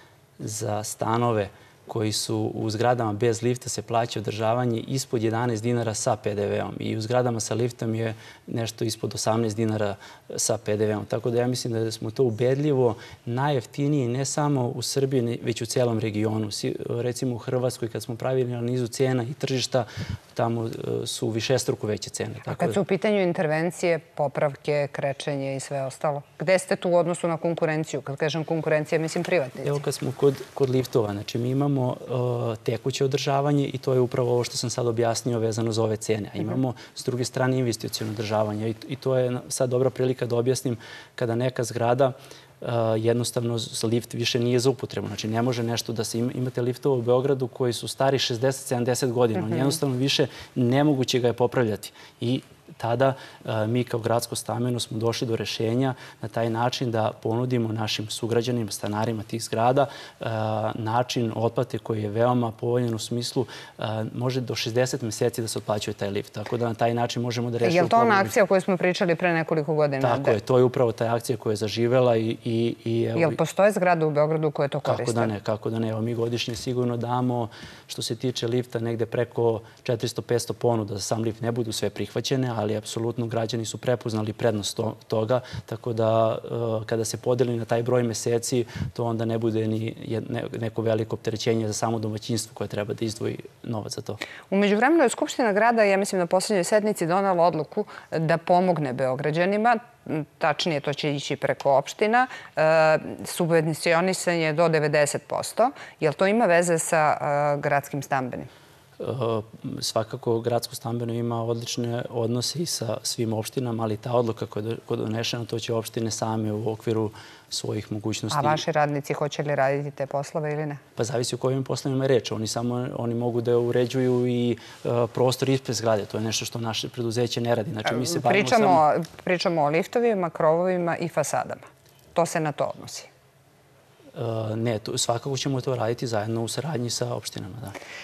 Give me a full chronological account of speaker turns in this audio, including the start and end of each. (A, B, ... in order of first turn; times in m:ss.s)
0:00.4-0:22.8 A
0:22.5-0:29.8 B
0:29.6-1:08.3 A
0:49.4-0:49.7 B
1:07.6-1:10.4 B
1:10.0-1:13.4 A
1:13.2-1:15.3 B
1:14.8-1:34.2 A
1:34.5-1:48.5 B
1:49.0-1:58.6 A
1:58.3-2:00.8 B
2:01.0-2:08.8 A
2:07.8-2:11.6 B
2:12.1-2:13.1 B
2:14.1-2:17.8 A